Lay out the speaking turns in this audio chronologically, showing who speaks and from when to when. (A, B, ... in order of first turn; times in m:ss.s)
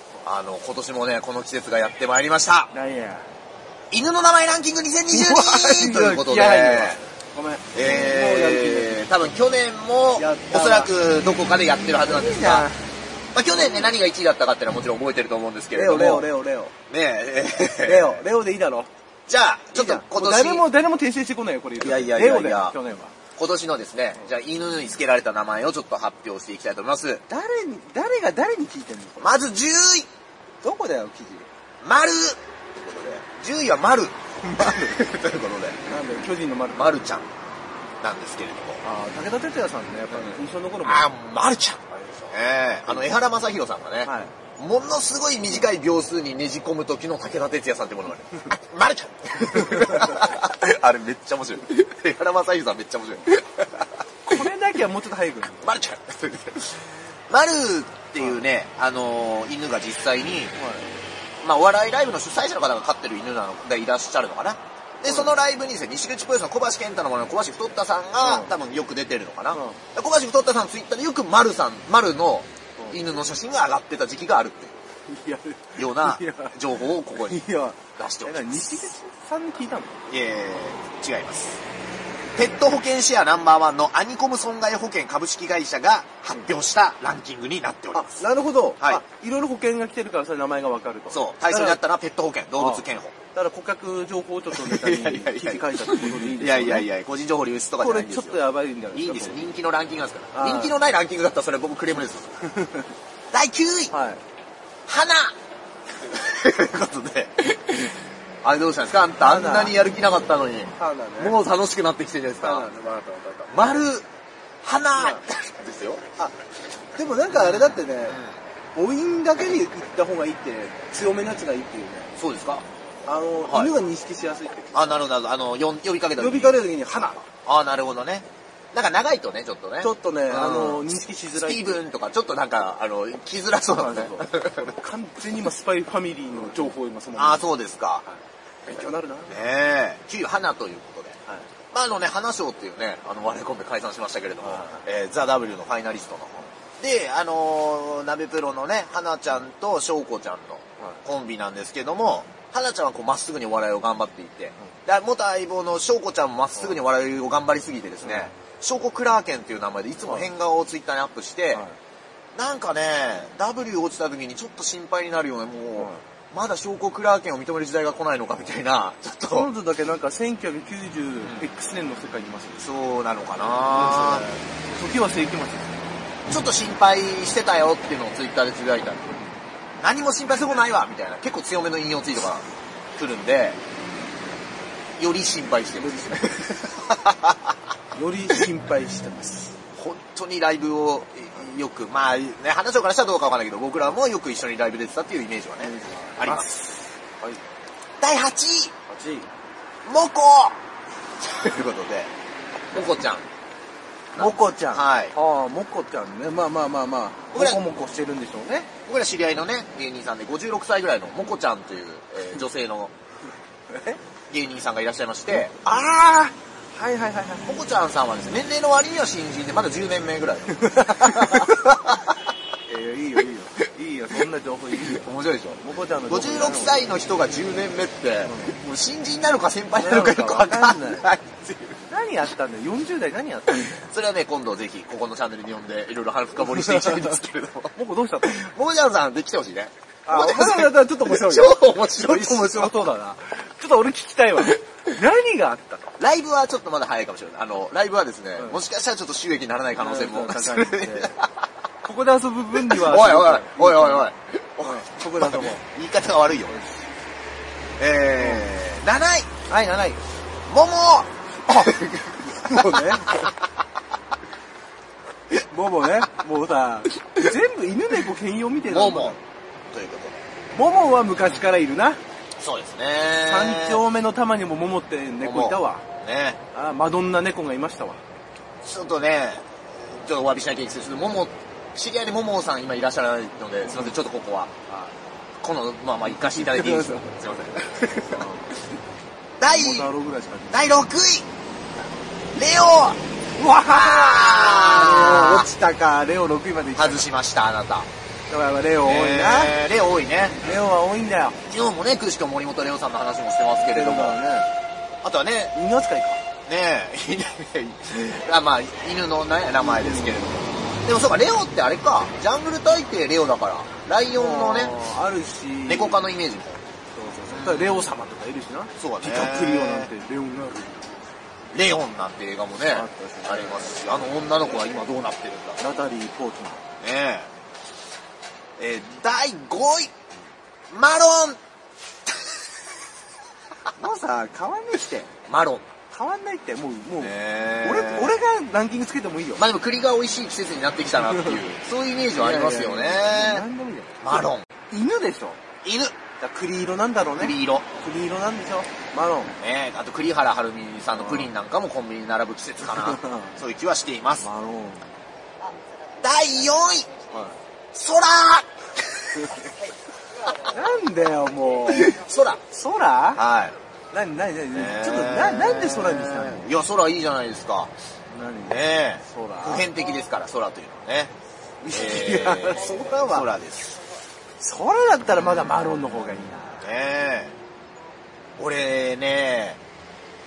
0:00.2-0:02.7 A
0:02.7-0:03.3 B
0:03.9-0:07.0 A
0:05.1-0:09.2 B
0:07.7-0:12.7 A
0:10.2-0:10.9 B
0:12.0-0:12.9 B
0:13.3-0:16.3 A
0:13.5-0:13.9 B
0:15.7-0:16.7 B
0:16.9-0:18.2 A
0:17.8-0:18.9 B
0:19.3-0:20.7 A
0:19.7-0:23.1 B
0:21.8-0:22.8 A
0:23.4-0:27.2 A
0:27.3-0:29.4 B
0:29.2-0:30.1 A
0:30.6-0:31.5 B
0:31.8-0:35.8 A
0:34.6-0:34.9 B
0:35.9-0:36.9 B
0:36.7-0:37.3 A
0:38.0-0:38.8 A
0:38.8-0:41.1 B
0:40.1-0:54.4 A
0:41.9-0:42.3 B
0:44.0-0:44.3 B
0:54.2-0:55.7 B
0:55.6-1:00.6 A
1:00.6-1:00.9 B
1:01.4-1:14.7 A
1:05.1-1:05.4 B
1:08.2-1:08.6 B
1:09.5-1:09.8 B
1:15.1-1:16.6 B
1:15.8-1:17.4 A
1:17.1-1:20.0 B
1:18.0-1:18.9 A
1:20.1-1:21.6 A
1:22.4-1:28.2 A
1:27.9-1:31.8 B
1:31.1-1:33.1 A
1:32.6-1:36.9 B
1:34.5-1:38.4 A
1:37.8-1:39.5 B
1:38.9-1:42.4 A
1:40.3-1:40.8 B
1:42.5-1:42.9 B
1:43.3-1:43.9 A
1:43.9-1:44.2 B
1:44.9-1:45.4 A
1:46.1-1:52.7 A
1:49.2-1:49.8 B
1:50.8-1:51.4 B
1:52.4-1:53.8 B
1:53.5-1:54.1 A
1:54.6-1:56.0 A
1:55.0-1:55.2 B
1:57.0-1:58.2 B
1:57.3-1:58.4 A
1:58.8-2:02.1 B
2:02.2-2:02.7 A
2:03.1-2:05.0 B
2:03.4-2:03.8 A
2:04.7-2:06.6 A
2:06.2-2:07.2 B
2:07.2-2:14.6 A
2:09.8-2:11.8 B
2:13.7-2:17.4 B
2:17.2-2:18.1 A
2:18.1-2:19.4 B
2:19.3-2:21.2 A
2:21.7-2:41.6 A
2:24.4-2:24.8 B
2:38.0-2:38.3 B
2:40.0-2:40.3 B
2:42.4-2:49.5 A
2:49.3-2:52.7 B
2:52.6-2:54.2 A
2:53.7-2:55.8 B
2:56.3-2:59.1 A
2:59.8-3:03.6 A
3:05.0-3:07.5 A
3:05.8-3:06.6 B
3:07.9-3:09.5 B
3:09.8-3:16.5 A
3:15.6-3:17.4 B
3:18.0-3:18.7 A
3:18.9-3:19.3 B
3:19.8-3:20.6 A
3:21.2-3:22.1 A
3:22.7-3:23.3 A
3:24.2-3:25.2 A
3:24.2-3:28.7 B
3:27.3-3:27.6 A
3:28.8-3:32.9 A
3:33.7-3:34.0 B
3:34.3-3:35.6 A
3:35.3-3:37.5 B
3:37.4-3:42.1 A
3:40.6-3:41.6 B
3:42.7-3:45.0 B
3:44.9-3:51.8 A
3:45.6-3:47.0 B
3:48.2-3:48.6 B
3:49.8-3:51.1 B
3:51.9-3:53.8 B
3:53.6-4:02.8 A
3:56.6-3:57.1 B
3:57.8-3:58.5 B
4:00.1-4:05.9 B
4:06.0-4:11.3 A
4:09.8-4:11.2 B
4:11.8-4:14.1 B
4:12.6-4:16.6 A
4:14.6-4:15.6 B
4:16.5-4:16.8 B
4:17.8-4:19.3 A
4:18.2-4:18.5 B
4:19.5-4:20.0 B
4:20.5-4:23.3 A
4:21.5-4:21.8 B
4:22.3-4:23.3 B
4:25.5-4:29.2 B
4:28.7-4:29.2 A
4:29.7-4:30.2 A
4:30.5-4:32.0 B
4:32.4-4:33.8 A
4:33.2-4:35.8 B
4:35.2-4:36.4 A
4:36.5-4:38.0 B
4:38.6-4:44.5 A
4:45.4-4:48.2 A
4:46.1-4:47.1 B
4:48.1-4:48.6 B
4:49.4-4:49.9 A
4:49.5-4:50.7 B
4:50.5-4:51.3 A
4:52.3-4:53.0 A
4:53.4-4:57.1 B
4:53.6-4:55.5 A
4:56.8-4:57.9 A
4:58.3-4:59.6 B
4:58.8-5:00.4 A
5:00.4-5:01.4 B
5:01.5-5:04.2 A
5:03.6-5:04.5 B
5:05.0-5:05.6 A
5:05.5-5:06.2 B
5:06.5-5:14.8 A
5:09.6-5:10.4 B
5:14.1-5:16.1 B
5:15.6-5:16.6 A
5:17.0-5:20.9 B
5:17.3-5:17.9 A
5:18.8-5:19.9 A
5:21.5-5:25.6 A
5:22.7-5:23.7 B
5:25.6-5:26.6 B
5:26.8-5:27.3 A
5:28.6-5:29.9 A
5:30.7-5:31.4 A
5:33.8-5:35.1 B
5:35.3-5:35.7 A
5:35.9-5:39.4 B
5:37.0-5:38.2 A
5:39.4-5:43.4 A
5:41.0-5:41.4 B
5:42.1-5:45.4 B
5:44.0-5:44.5 A
5:45.6-5:46.0 A
5:46.2-5:49.4 B
5:47.0-5:47.7 A
5:49.4-5:54.3 A
5:50.9-5:51.3 B
5:52.7-5:53.3 B
5:54.2-5:54.9 B
5:56.0-5:56.9 A
5:57.1-5:57.4 B
5:57.7-5:59.5 A
6:00.5-6:02.0 B
6:01.7-6:02.4 A
6:02.5-6:03.2 B
6:03.2-6:03.6 A
6:03.9-6:06.5 B
6:04.5-6:07.7 A
6:08.1-6:09.7 B
6:08.5-6:11.1 A
6:11.6-6:13.3 B
6:11.7-6:13.8 A
6:14.4-6:16.7 B
6:16.6-6:17.4 A
6:18.4-6:19.6 A